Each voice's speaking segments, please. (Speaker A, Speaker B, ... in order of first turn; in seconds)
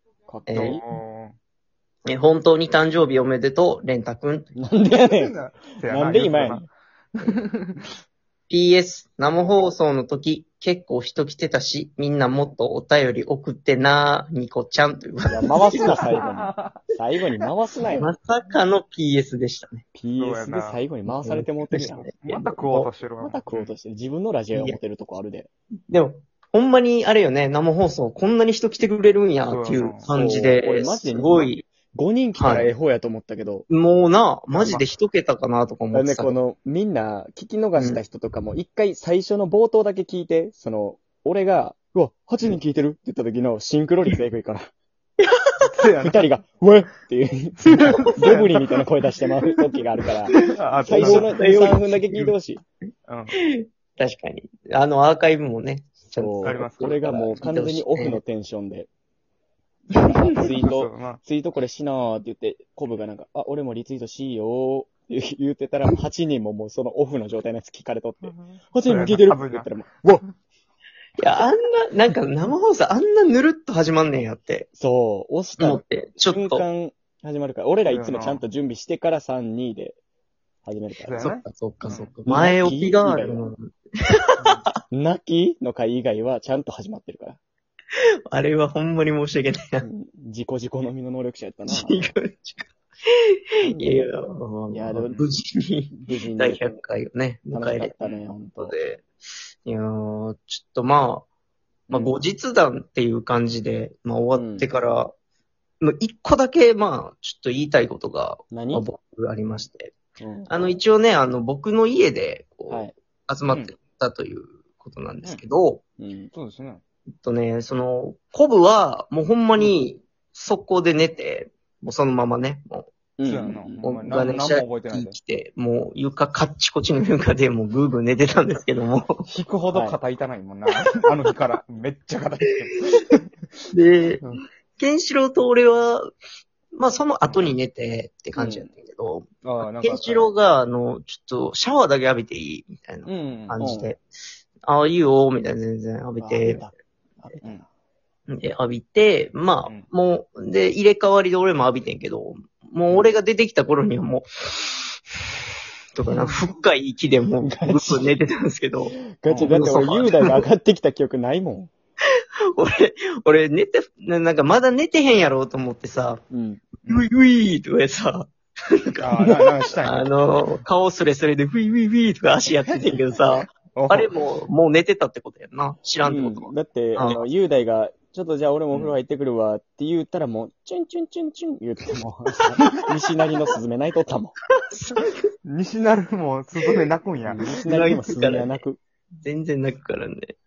Speaker A: 0.3-0.8, 4.5-6.6, 15.3-18.1, 19.9-22.2, 23.2-25.5, 30.1-33.6, 35.9-44.7, 46.0-52.6, 56.2-58.9, 60.0-70.2, 74.8-80.0, 80.6-81.2, 82.2-83.4, 84.9-87.4, 89.8-92.1, 93.6-94.1, 94.7-95.2, 95.9-96.8, 97.5-98.8, 101.9-102.2, 104.3-104.7, 108.5-108.8, 110.2-110.8, 116.0-116.3, 123.2-124.2, 129.7-130.0, 138.3-138.7, 143.6-143.9, 146.2-147.6, 157.4-158.1, 159.0-161.7, 166.3-166.6, 176.0-184.3, 187.2-188.8
Speaker B: 0.5-0.8, 2.1-4.5, 8.5-16.1, 17.9-19.8, 21.2-22.9, 25.9-31.7, 32.4-32.7, 33.7-36.3, 45.2-45.7, 50.3-52.3, 53.4-58.2, 59.9-60.4, 71.2-74.7, 75.6-76.7, 81.2-84.3, 88.3-89.8, 91.7-93.1, 93.7-97.9, 98.6-99.0, 99.6-101.3, 101.9-105.1, 105.8-109.9, 110.5-115.8, 117.1-122.9, 123.8-129.2, 133.7-134.2, 134.8-136.1, 136.7-139.3, 139.8-144.0, 144.7-146.7, 148.3-154.9, 155.9-160.4, 162.5-166.2, 166.8-177.2, 184.7-185.1, 187.6-188.6, 189.2-190.3
Speaker C: 0.5-1.4, 4.9-6.7, 7.2-7.8, 15.7-16.8, 20.1-20.8, 22.0-23.7, 29.4-30.1, 34.5-34.9, 45.6-46.3, 47.8-48.8, 50.3-51.4, 53.1-53.3, 56.4-57.0, 60.4-61.2, 68.2-69.7, 77.8-78.4, 81.0-82.1, 84.4-84.6, 95.0-95.3, 116.3-116.8, 123.2-125.2, 129.3-133.2, 137.3-137.5, 139.4-140.3, 143.1-143.6, 159.3-159.6, 169.0-170.6, 173.7-174.1, 185.4-187.6